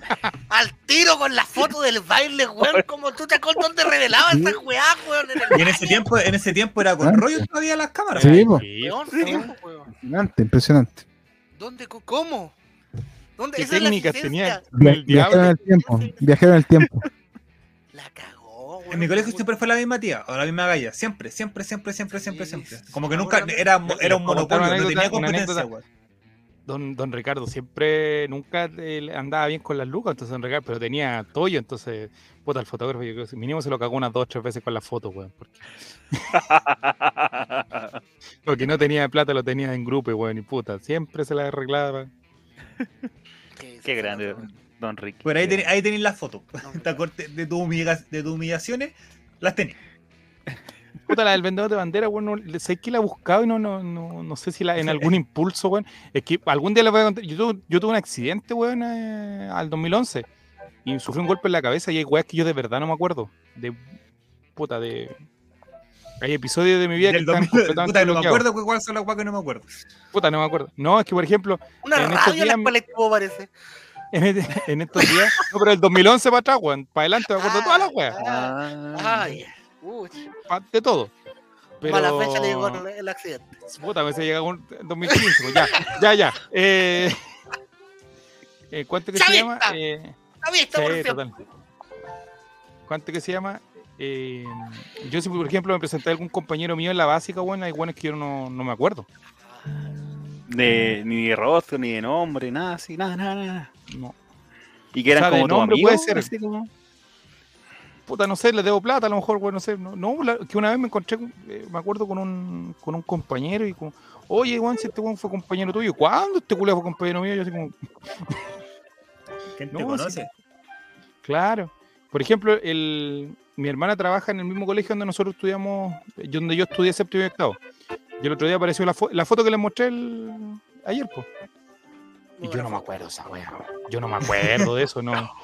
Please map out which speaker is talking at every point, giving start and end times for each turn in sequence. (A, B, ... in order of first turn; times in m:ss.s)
0:00.5-0:06.0 A
0:04.3-0:04.6 B
0:05.5-0:08.5 C
0:07.0-0:07.4 B
0:08.1-0:09.0 D
0:08.2-0:08.6 B
0:08.8-0:09.9 A
0:09.2-0:09.5 E
0:09.9-0:11.0 B
0:11.6-0:12.6 A
0:13.4-0:14.6 A
0:13.6-0:15.6 D
0:14.8-0:17.0 B
0:15.4-0:16.4 A
0:17.9-0:19.5 A
0:18.9-0:25.8 C
0:22.1-0:23.7 A
0:23.8-0:25.7 D
0:26.7-0:36.3 D
0:36.3-0:38.0 E
0:38.4-0:42.1 D
0:43.6-0:44.5 A
0:43.8-0:45.7 E
0:45.2-0:49.7 C
0:46.6-0:47.0 A
0:51.0-1:00.3 D
1:00.8-1:03.9 D
1:04.6-1:05.2 D
1:06.2-1:08.4 D
1:07.0-1:09.7 C
1:10.1-1:12.7 D
1:11.8-1:13.5 A
1:14.1-1:18.2 D
1:17.3-1:20.3 A
1:18.2-1:19.4 E
1:20.5-1:21.1 D
1:21.8-1:22.8 D
1:21.8-1:23.5 A
1:23.8-1:27.2 D
1:25.5-1:26.0 A
1:28.7-1:30.2 D
1:29.1-1:29.8 A
1:30.4-1:31.2 A
1:30.7-1:31.3 D
1:32.9-1:39.1 D
1:39.5-1:39.8 A
1:40.5-1:43.7 E
1:43.9-1:44.1 D
1:44.9-1:46.7 E
1:45.1-1:46.3 D
1:48.1-1:58.4 D
1:59.6-2:00.3 C
1:59.7-2:00.2 D
2:01.2-2:07.6 D
2:08.2-2:11.2 D
2:12.4-2:13.1 A
2:12.4-2:15.3 D